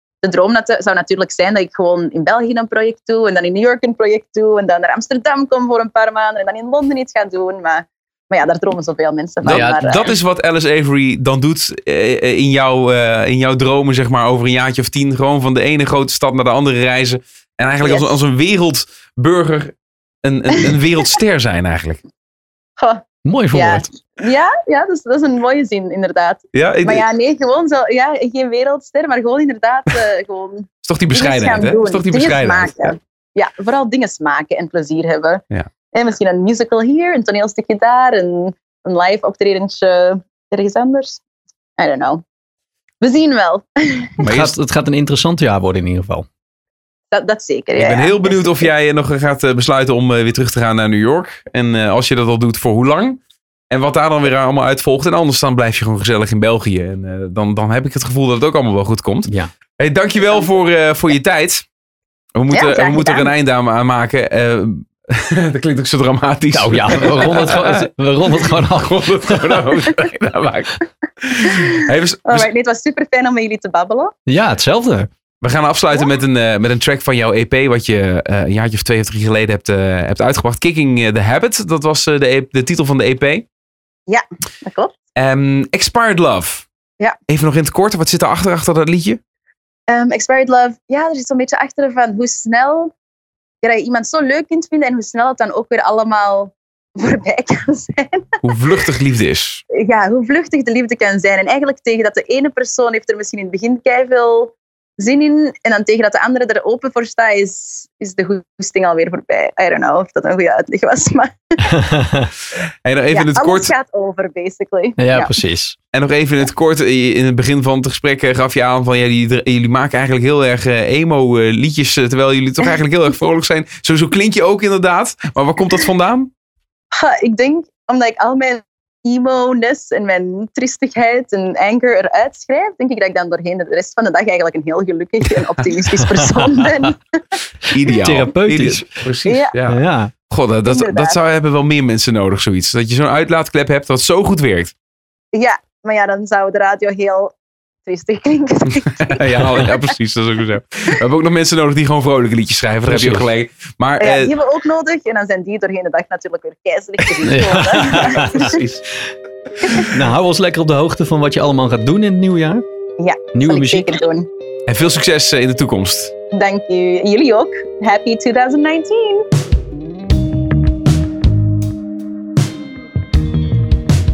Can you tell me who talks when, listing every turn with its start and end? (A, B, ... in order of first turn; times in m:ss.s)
0:00.2-0:10.1 A
0:09.4-0:22.0 B
0:09.5-0:09.8 C
0:17.8-0:18.1 A
0:22.8-0:41.2 A
0:23.2-0:23.9 C
0:26.5-0:27.0 B
0:30.8-0:33.0 B
0:41.8-0:42.2 A
0:43.0-0:44.1 A
0:44.2-0:44.5 B
0:44.2-0:46.3 C
0:47.1-0:48.7 A
0:47.8-0:53.2 B
0:53.7-1:01.7 B
0:59.3-0:59.5 C
1:02.4-1:12.5 B
1:02.5-1:03.3 A
1:06.5-1:09.7 C
1:11.4-1:14.1 A
1:14.3-1:15.1 C
1:15.4-1:23.4 B
1:24.1-1:24.9 A
1:25.2-1:26.7 B
1:27.3-1:29.2 B
1:29.9-1:32.9 A
1:33.6-1:38.3 A
1:38.4-1:39.6 B
1:39.8-1:51.7 A
1:51.7-1:52.3 C
1:52.8-1:53.7 B
1:53.1-1:55.3 A
1:55.0-1:55.8 C
1:55.9-2:06.3 B
2:06.9-2:17.0 A
2:16.3-2:16.8 C
2:17.7-2:24.7 B
2:18.0-2:18.9 C
2:19.3-2:19.5 A
2:19.7-2:20.1 C
2:20.7-2:21.2 A
2:25.3-2:27.4 A
2:27.9-2:29.8 A
2:29.1-2:34.3 B
2:32.9-2:33.3 C
2:34.0-2:38.6 A
2:37.2-2:38.5 C
2:38.2-2:38.9 B
2:39.8-2:42.6 C
2:43.0-2:44.3 A
2:43.4-2:43.9 C
2:44.7-2:46.1 B
2:46.3-2:49.2 A